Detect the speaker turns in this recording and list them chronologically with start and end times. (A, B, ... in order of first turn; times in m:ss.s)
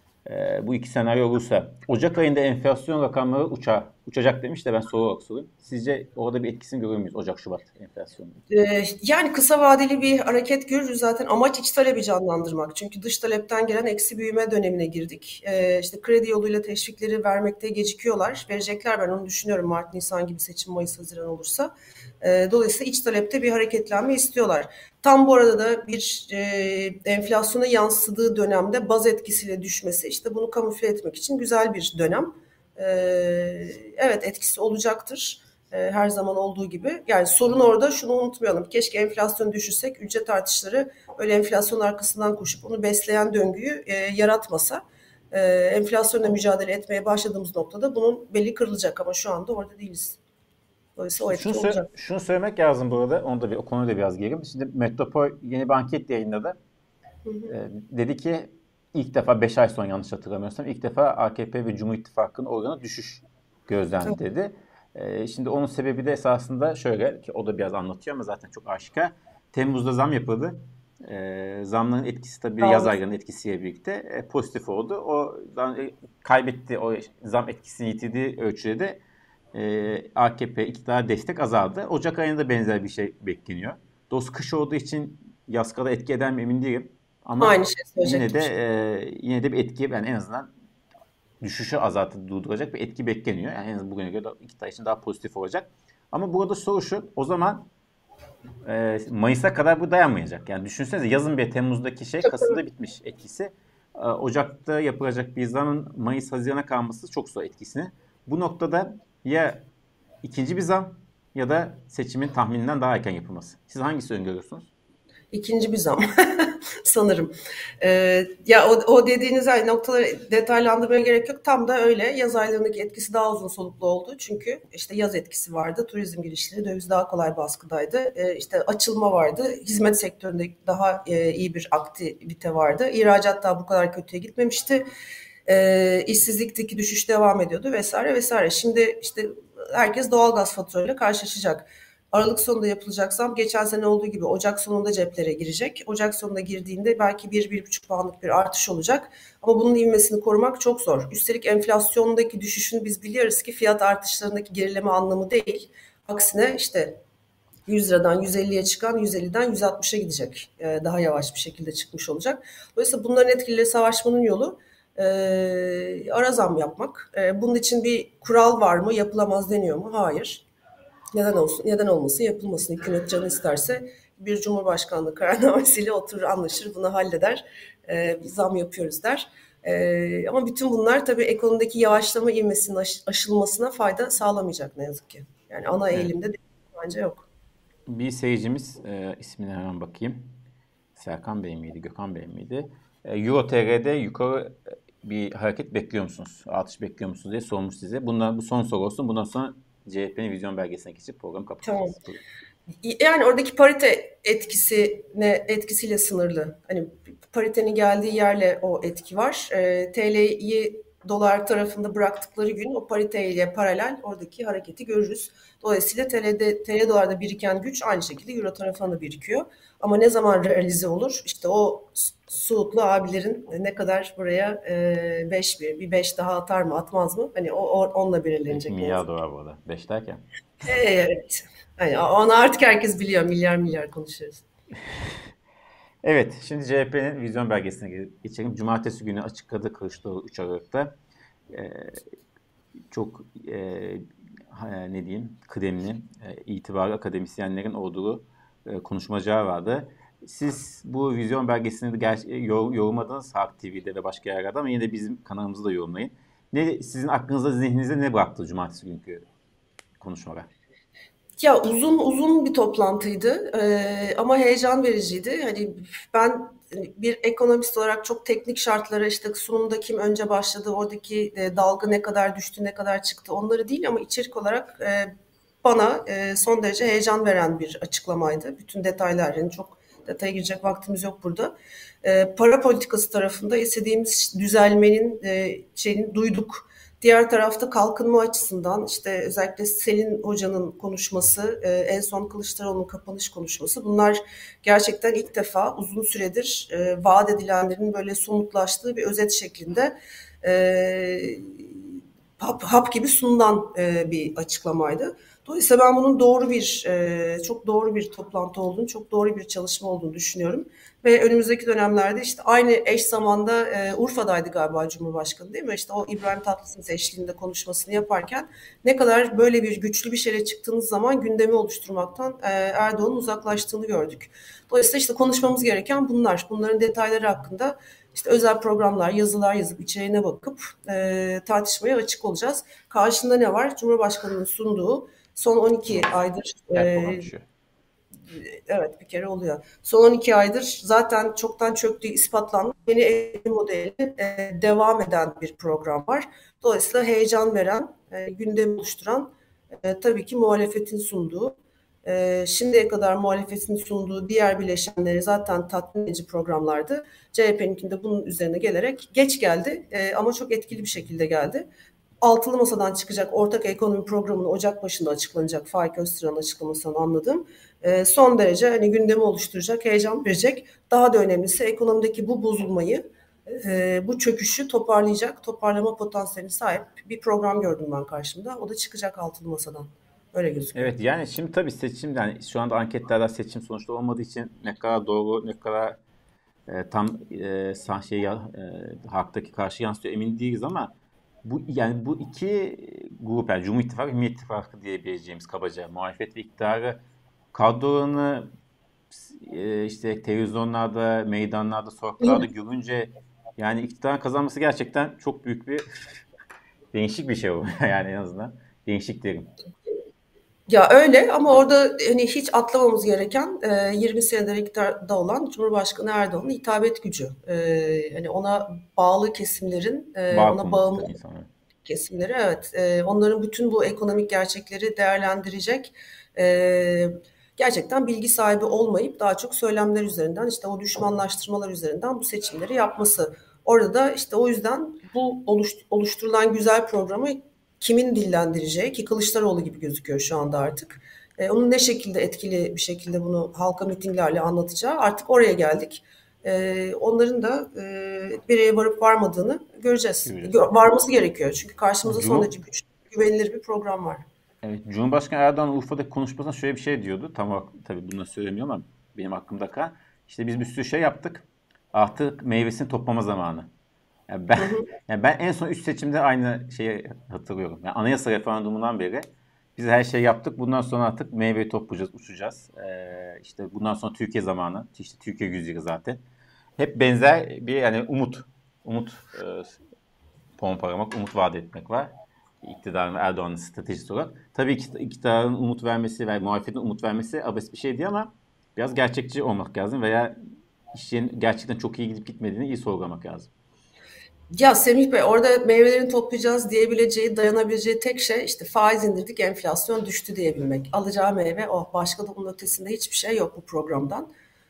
0:00.2-0:08.4 A
0:08.5-0:50.2 B
0:51.0-0:51.9 B
0:51.3-0:56.6 A
0:57.2-0:57.5 B
0:57.5-1:19.0 A
1:12.6-1:13.0 B
1:19.5-1:30.5 A
1:27.4-1:28.5 B
1:31.4-1:37.7 A
1:38.6-1:49.6 A
1:50.2-1:54.7 A
1:55.3-2:14.8 B
2:15.4-2:37.0 B
2:37.7-2:50.4 B
2:51.1-3:07.2 B
3:07.9-3:10.3 A
3:10.9-3:22.2 A
3:21.6-3:22.0 B
3:22.8-3:49.0 B
3:48.5-3:50.2 A
3:50.6-3:54.4 B
3:56.0-4:00.9 A
4:01.5-4:02.0 A
4:02.9-4:19.2 A
4:20.0-4:20.5 A
4:21.4-4:35.1 B
4:35.6-5:37.3 B
5:36.7-5:37.4 A
5:38.3-5:49.3 B
5:49.8-6:01.6 B
6:02.2-6:20.9 B
6:20.7-6:26.0 A
6:26.7-6:30.9 A
6:31.4-6:37.0 A
6:37.5-6:38.5 A
6:39.1-6:45.8 A
6:46.9-6:49.5 A
6:50.7-7:01.1 B
7:00.3-7:01.5 A
7:01.8-7:34.2 B
7:30.2-7:30.7 A
7:32.0-7:32.5 A
7:34.6-7:43.7 A
7:44.3-7:56.2 A
7:44.6-7:44.9 B
7:56.8-7:59.8 A
8:00.6-8:10.4 A
8:10.9-8:13.5 A
8:14.5-8:24.3 B